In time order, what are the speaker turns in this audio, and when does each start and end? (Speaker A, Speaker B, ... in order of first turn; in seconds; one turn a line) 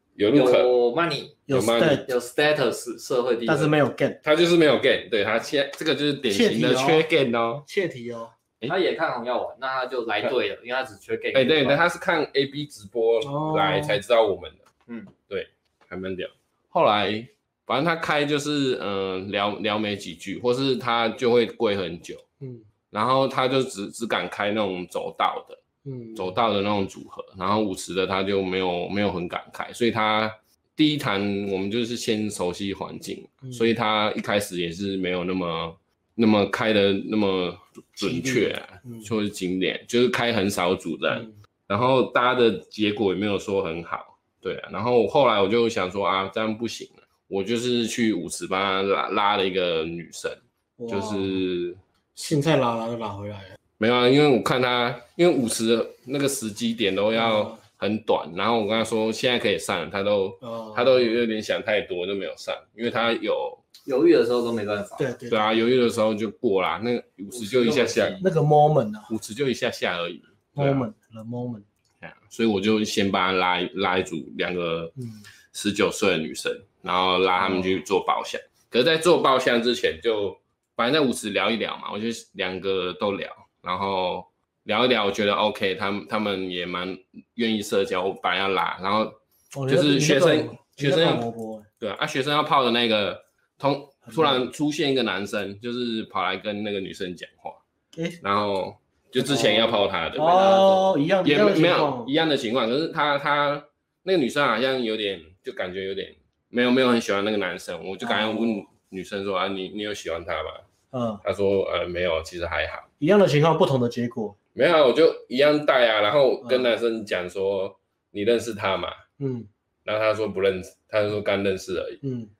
Speaker A: 0.2-0.7
Speaker B: 0.3-1.4
Speaker C: 1.5-2.1
Speaker A: 1.5-2.1
Speaker B: 2.1-3.7
Speaker C: 3.5-4.2
Speaker A: 4.2-7.7
Speaker C: 6.3-7.1
Speaker C: 7.7-8.3
Speaker B: 8.7-11.8
Speaker A: 11.3-14.6
Speaker C: 13.2-14.0
Speaker A: 15.3-22.2
Speaker C: 22.4-22.7
Speaker A: 22.9-25.6
Speaker C: 25.9-26.4
Speaker A: 26.2-51.8
Speaker C: 38.0-39.1
Speaker C: 50.8-51.4
Speaker C: 52.1-53.6
Speaker A: 53.8-63.6
Speaker C: 57.2-57.6
Speaker C: 60.4-61.1
Speaker B: 63.9-65.1
Speaker C: 65.0-65.6
Speaker A: 65.3-68.2
Speaker B: 67.3-68.3
Speaker C: 68.2-69.1
Speaker A: 69.1-70.8
Speaker C: 70.5-71.7
Speaker A: 72.0-74.9
Speaker A: 75.5-91.2
Speaker C: 77.4-77.7
Speaker C: 89.5-91.7
Speaker A: 91.8-97.6
Speaker C: 94.1-94.5
Speaker C: 97.9-98.2
Speaker A: 98.2-110.7
Speaker C: 99.2-102.1
Speaker B: 100.2-100.9
Speaker C: 108.0-108.6
Speaker C: 110.9-111.2
Speaker A: 111.2-112.9
Speaker C: 113.0-114.4
Speaker A: 114.5-119.0
Speaker C: 116.4-116.7
Speaker C: 119.2-119.5
Speaker A: 119.8-122.0
Speaker C: 122.0-122.3